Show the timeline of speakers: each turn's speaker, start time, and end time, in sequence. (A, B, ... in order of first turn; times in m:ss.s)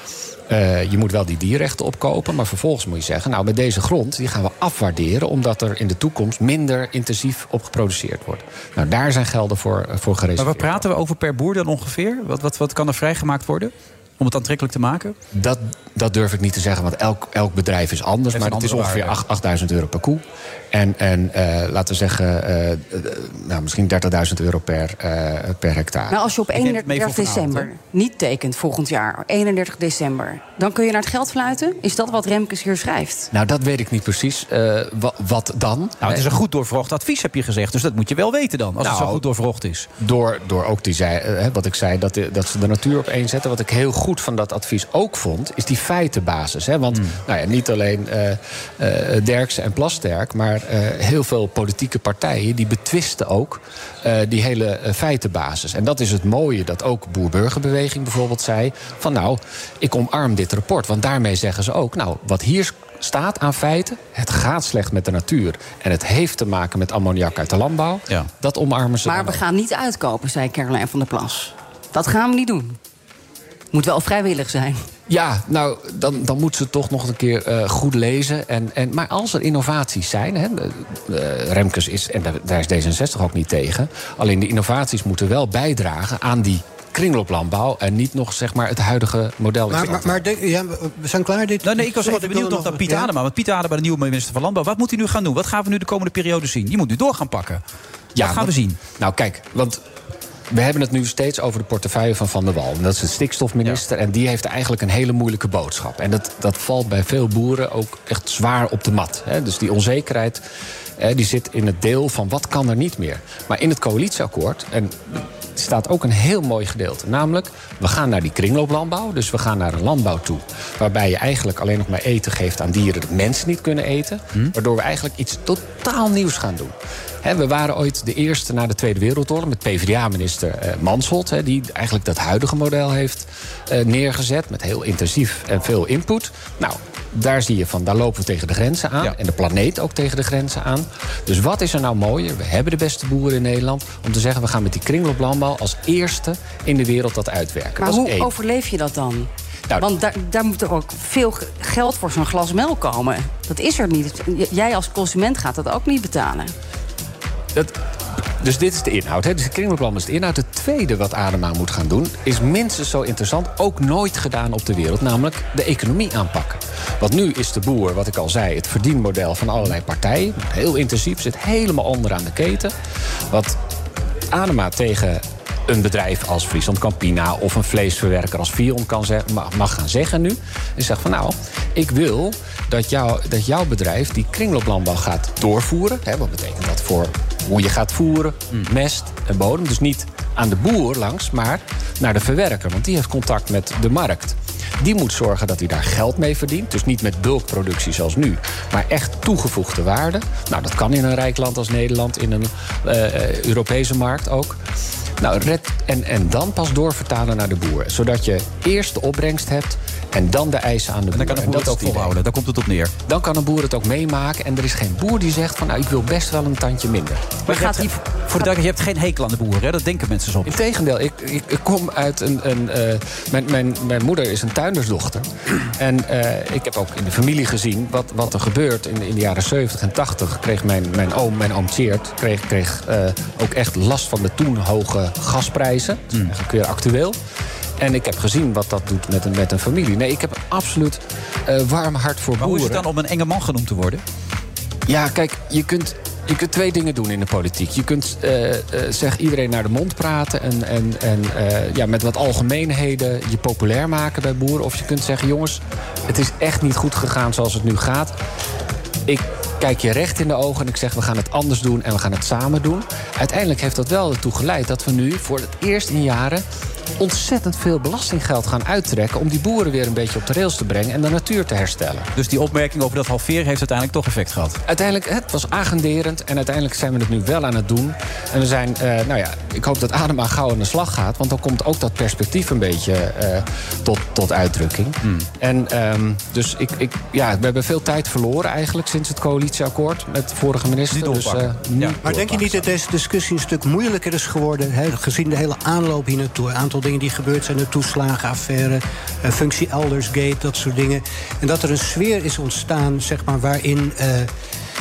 0:00.5-0:10.9 A
0:10.4-0:15.2 B
0:15.3-0:26.2 A
0:18.3-0:19.2 B
0:26.1-0:33.3 C
0:26.6-0:27.7 B
0:33.3-0:36.3 A
0:36.0-0:39.9 B
0:38.8-0:39.2 A
0:40.0-1:09.4 A
1:09.0-1:12.8 C
1:13.7-1:14.8 C
1:15.1-1:30.2 A
1:29.7-1:33.1 D
1:31.6-1:37.6 B
1:38.2-1:39.8 A
1:38.2-1:38.8 B
1:40.5-1:50.4 A
1:51.0-2:28.3 A
2:27.8-2:36.5 C
2:38.4-2:52.7 A
2:53.3-2:53.6 A
2:54.3-3:24.6 A
3:25.2-3:32.2 A
3:31.1-3:32.9 B
3:33.0-3:37.6 A
3:37.5-3:40.5 B
3:37.5-3:37.9 C
3:40.5-3:57.2 A
3:57.8-4:02.9 A
4:02.4-4:04.0 B
4:04.9-4:18.1 A
4:19.1-4:26.4 A
4:27.0-4:32.1 A
4:32.2-4:34.6 B
4:34.7-4:52.4 A
4:50.9-4:52.2 B
4:52.0-5:04.3 D